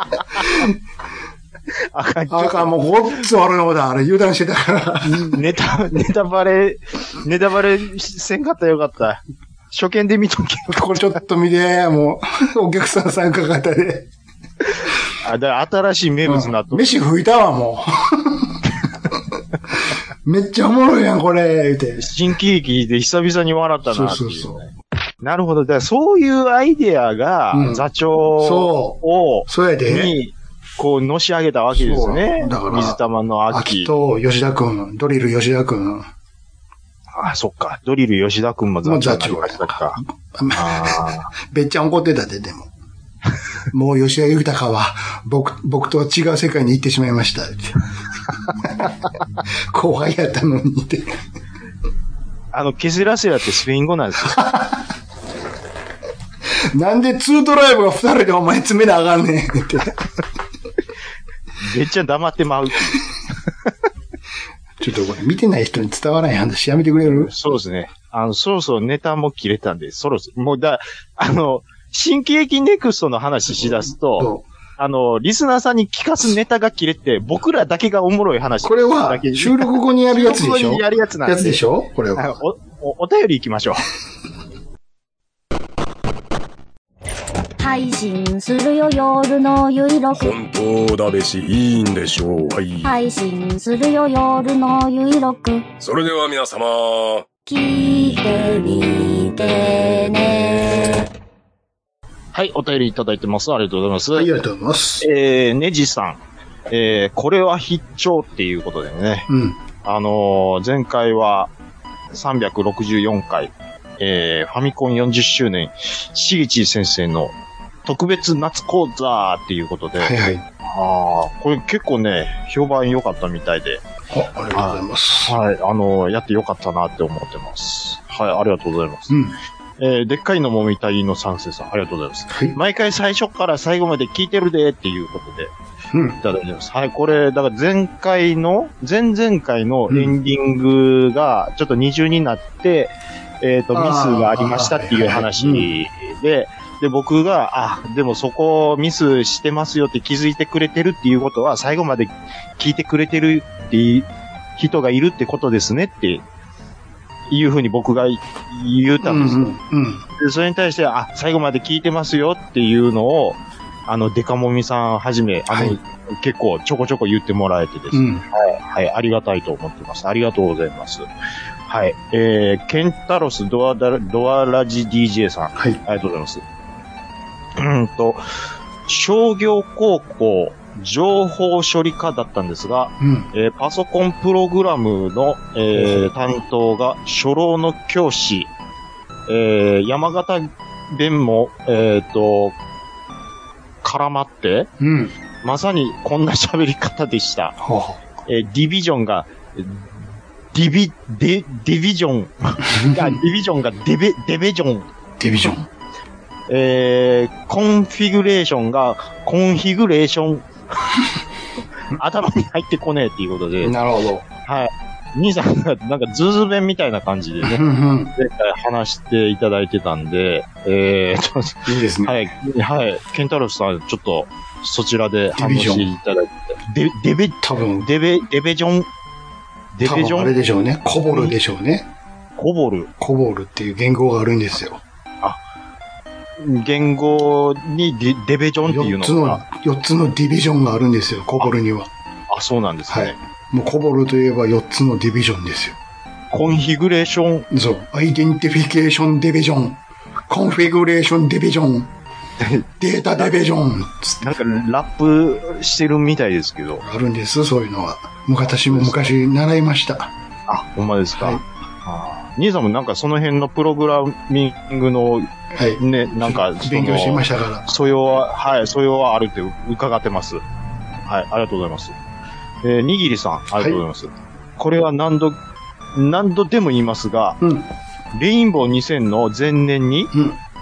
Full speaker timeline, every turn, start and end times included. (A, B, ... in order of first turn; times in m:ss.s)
0:00.5-0:00.7 A
0:01.9-0:02.7 B
0:02.3-0:05.4 A
0:05.0-0:09.2 B
0:09.7-0:11.1 B
0:10.7-0:14.1 A
0:15.2-0:17.0 B
0:16.2-0:18.6 A
0:20.2-0:22.1 A
0:22.0-0:24.7 B
0:23.9-0:24.6 A
0:25.2-0:33.9 B
0:27.5-0:30.2 A
0:31.7-0:36.1 A
0:37.2-0:40.0 B
0:38.8-0:42.7 A
0:40.5-0:41.3 B
0:43.7-0:47.8 A
0:48.5-0:48.9 A
0:49.7-0:51.2 A
0:52.5-0:54.5 B
0:54.3-0:54.8 A
0:56.7-1:00.0 A
1:01.6-1:03.1 B
1:04.8-1:07.3 A
1:07.1-1:21.6 B
1:13.7-1:14.5 A
1:18.6-1:22.4 A
1:22.2-1:23.9 B
1:27.6-1:30.4 C
1:30.1-1:32.9 D
1:32.8-1:35.7 C
1:35.8-1:37.3 D
1:37.5-1:41.1 C
1:42.3-1:44.3 B
1:44.1-1:45.1 A
1:45.0-1:49.3 B
1:49.3-1:49.6 A
1:49.8-1:51.5 B
1:52.1-1:57.3 B
1:57.8-2:03.8 B
2:00.0-2:00.4 A
2:04.1-2:05.4 A
2:04.6-2:09.2 B
2:09.1-2:09.4 A
2:09.8-2:15.5 B
2:12.3-2:12.6 A
2:15.9-2:16.2 A
2:16.2-2:36.2 B
2:19.9-2:20.2 A
2:23.7-2:25.7 A
2:37.3-2:39.5 B
2:39.0-2:40.0 A
2:40.2-2:51.1 B
2:45.5-2:45.8 A
2:47.9-2:48.2 A
2:51.7-2:56.4 B
2:57.6-2:58.2 B
2:58.9-3:08.5 B
3:03.0-3:03.3 A
3:05.7-3:06.1 A
3:09.3-3:12.6 B
3:13.8-3:14.7 B
3:14.8-3:15.1 A
3:15.4-3:17.6 B
3:17.6-3:18.0 A
3:18.3-3:19.9 B
3:20.5-3:24.9 B
3:22.7-3:23.2 A
3:25.2-3:25.7 A
3:26.5-3:31.0 B
3:31.9-3:33.8 B
3:33.6-3:34.2 A
3:34.4-3:37.6 B
3:37.4-3:38.1 A
3:38.2-3:48.9 B
3:41.7-3:42.2 A
3:45.4-3:45.9 A
3:47.4-3:47.9 A
3:49.8-3:50.3 B
3:49.8-3:51.9 A
3:51.1-3:51.4 B
3:52.4-3:52.9 B
3:53.0-3:54.8 A
3:56.4-3:59.4 B
3:58.7-4:01.9 A
4:02.3-4:03.2 B
4:02.9-4:05.8 A
4:06.3-4:07.5 B
4:07.5-4:11.9 A
4:12.4-4:12.7 B
4:12.8-4:14.3 A
4:14.2-4:16.8 B
4:16.8-4:20.1 A
4:18.6-4:19.1 B
4:20.5-4:30.4 B
4:21.2-4:21.4 A
4:25.5-4:27.7 A
4:31.1-4:32.0 B
4:32.6-4:35.4 B
4:35.9-4:37.4 B
4:37.4-4:37.7 A
4:38.1-4:40.1 B
4:40.1-4:40.4 A